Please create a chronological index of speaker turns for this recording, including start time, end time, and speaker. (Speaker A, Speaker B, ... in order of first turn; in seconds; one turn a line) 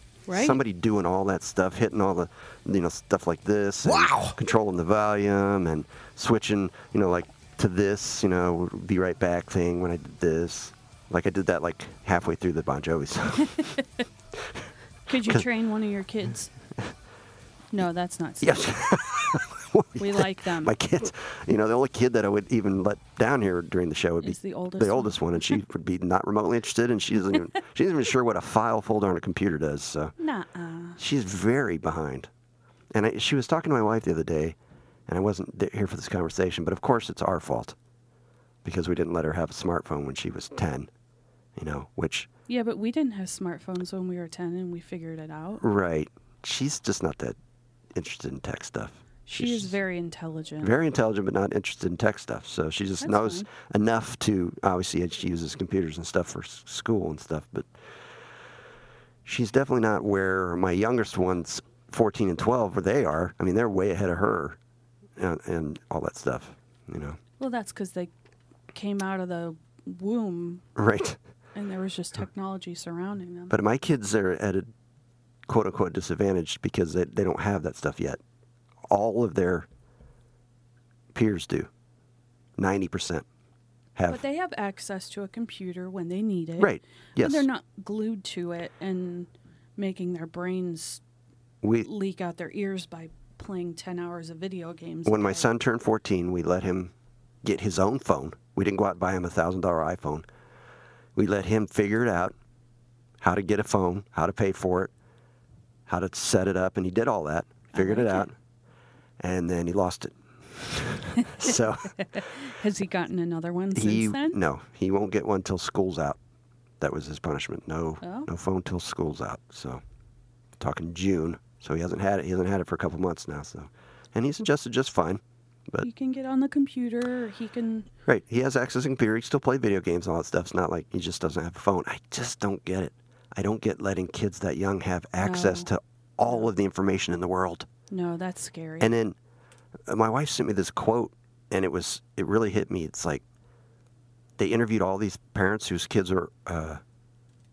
Speaker A: 0.3-0.6
Speaker B: 0.3-13.6
Speaker A: 15.1-16.5
Speaker A: 17.7-18.7
Speaker B: 18.4-30.1
Speaker A: 20.0-20.7
Speaker A: 24.2-25.6
Speaker A: 30.2-31.0
Speaker B: 31.0-32.3
Speaker B: 32.9-34.5
Speaker B: 35.1-37.8
Speaker B: 38.6-40.9
Speaker B: 41.5-42.3
Speaker A: 42.5-45.6
Speaker B: 45.6-47.4
Speaker B: 47.9-49.8
Speaker A: 49.3-50.7
Speaker B: 50.6-57.7
Speaker A: 53.0-53.5
Speaker B: 59.2-64.6
Speaker B: 65.2-67.2
Speaker A: 67.4-68.1
Speaker A: 68.7-70.6
Speaker B: 70.8-71.2
Speaker A: 71.5-73.6
Speaker B: 73.5-74.7
Speaker B: 75.5-78.2
Speaker B: 78.9-79.7
Speaker B: 81.1-81.7
Speaker B: 82.6-83.2
Speaker B: 84.0-84.2
Speaker A: 84.1-91.0
Speaker B: 86.6-87.5
Speaker B: 91.6-91.9
Speaker A: 91.8-95.5
Speaker B: 95.0-96.9
Speaker B: 97.4-100.2
Speaker B: 101.2-102.3
Speaker B: 103.2-104.9
Speaker B: 105.9-108.3
Speaker A: 107.7-108.3
Speaker B: 109.2-111.9
Speaker A: 111.2-114.4
Speaker B: 113.7-116.2
Speaker B: 116.8-119.8
Speaker A: 118.0-118.3
Speaker B: 120.6-125.9
Speaker A: 125.8-127.9
Speaker B: 128.1-137.7
Speaker A: 135.2-135.7
Speaker A: 137.9-138.9
Speaker B: 138.8-139.2
Speaker B: 139.9-143.2
Speaker B: 144.4-146.8